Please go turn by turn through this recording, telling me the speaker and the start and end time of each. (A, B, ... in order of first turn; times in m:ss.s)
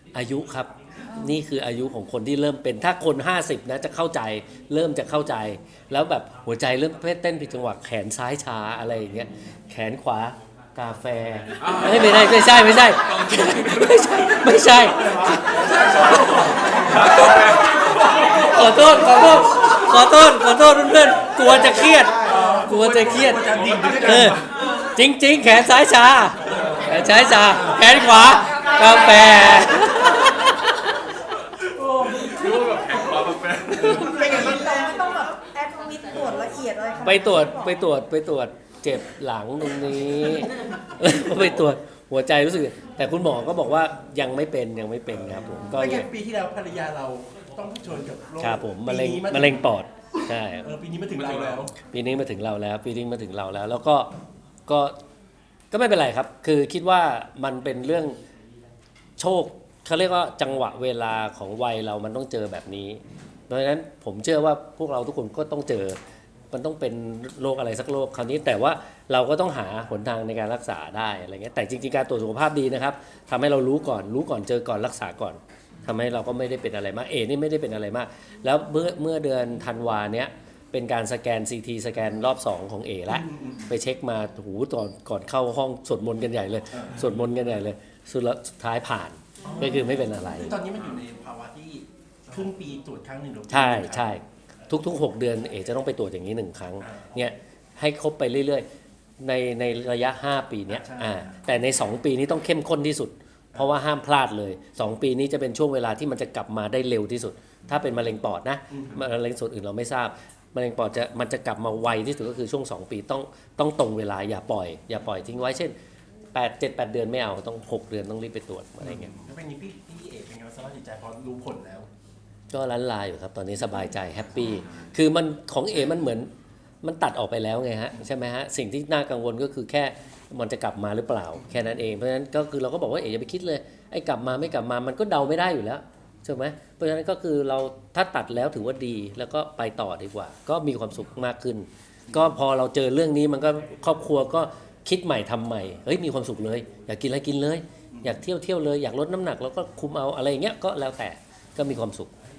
0:00.1-0:17.6 A
0:13.0-0:13.7 B
0:14.8-0:18.9 C
0:16.9-0:18.4 B
0:18.2-0:30.8 A
0:22.1-0:24.4 C
0:23.5-0:24.0 B
0:26.5-0:27.6 C
0:28.5-0:29.6 D
0:31.7-0:32.3 C
0:32.3-0:33.9 B
0:33.7-0:34.8 C
0:33.9-0:37.8 D
0:37.0-0:46.1 A
0:45.2-0:49.6 C
0:48.4-0:50.7 A
0:50.5-0:51.8 C
0:51.8-0:54.1 A
0:54.7-0:54.9 A
0:55.7-0:58.2 A
0:59.2-1:06.0 A
1:06.5-1:30.5 A
1:23.1-1:23.7 C
1:26.7-1:27.0 C
1:29.4-1:34.1 C
1:33.5-1:38.6 A
1:36.8-1:37.2 C
1:39.2-1:55.7 A
1:40.7-1:41.3 C
1:48.7-1:49.0 C
1:56.3-1:59.1 A
1:58.8-2:01.9 C
2:02.5-2:06.3 A
2:06.8-2:32.1 A
2:27.9-2:28.2 C